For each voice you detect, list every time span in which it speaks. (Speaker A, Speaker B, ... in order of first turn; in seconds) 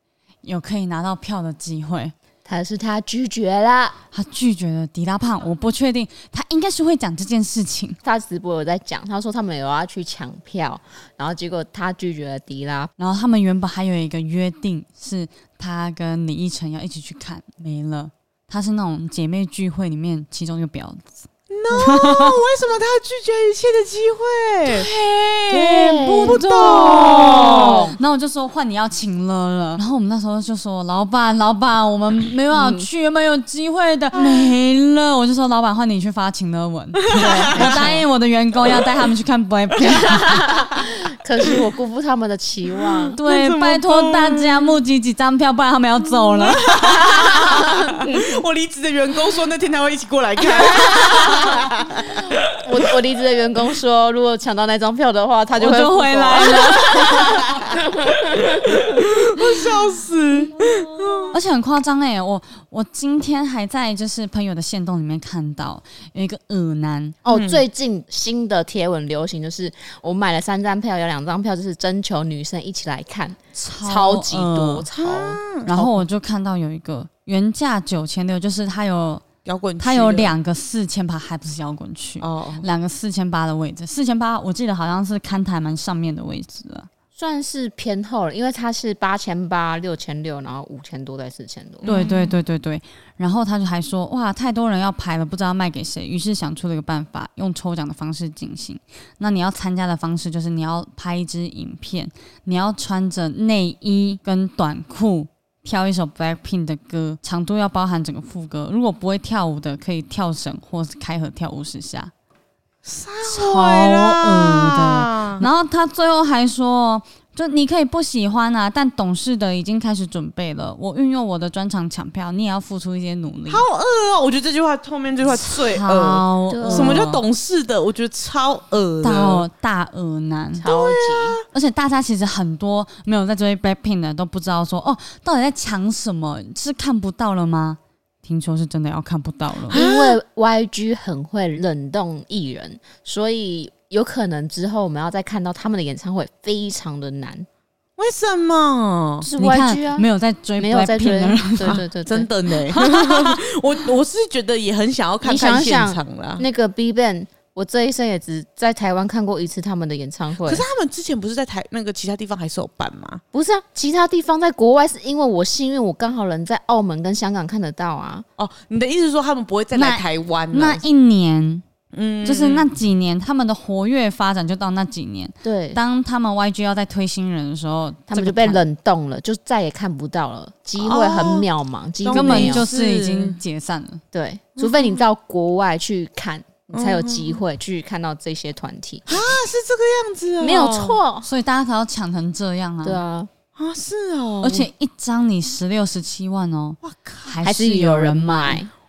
Speaker A: 0.4-2.1, 4.1-8.0, 13.0-22.4, 24.6-40.4, 43.1-46.6, 55.6-57.4, 61.3-67.2, 73.5-74.9, 75.7-79.2, 79.8-86.9, 91.8-112.1, 113.2-123.6, 125.7-127.2, 129.0-130.7, 131.5-139.8, 149.2-151.9, 152.7-153.4, 169.7-171.6, 172.2-178.6, 182.1-184.0, 191.2-193.0, 194.4-198.6
Speaker B: 2.4-4.0, 8.0-12.9, 25.5-28.0, 32.5-32.9, 37.1-38.0, 40.0-43.2, 52.6-57.8, 67.2-76.0, 87.2-92.0, 126.5-127.0, 130.6-131.4, 139.7-147.4, 149.2-152.3, 155.2-160.6, 163.3-168.2, 175.4-175.8, 178.1-182.7, 184.1-189.1, 190.4-191.2, 192.8-193.3, 197.4-198.7
Speaker C: 21.5-24.9, 26.2-27.8, 34.2-34.5, 37.1-38.0, 39.9-40.1, 41.4-41.7, 42.8-44.7, 46.2-52.4, 56.4-61.4, 67.3-67.6, 75.0-75.7, 79.4-80.3, 82.2-82.7, 91.8-92.4, 112.8-115.5, 123.5-129.4, 130.6-131.4, 139.7-140.2, 148.0-149.3, 151.7-156.4, 160.4-163.2, 168.4-170.8, 171.9-172.7, 180.8-181.5, 182.0-183.4, 184.6-185.1, 186.7-187.4, 189.1-191.0, 193.6-194.7, 196.8-197.4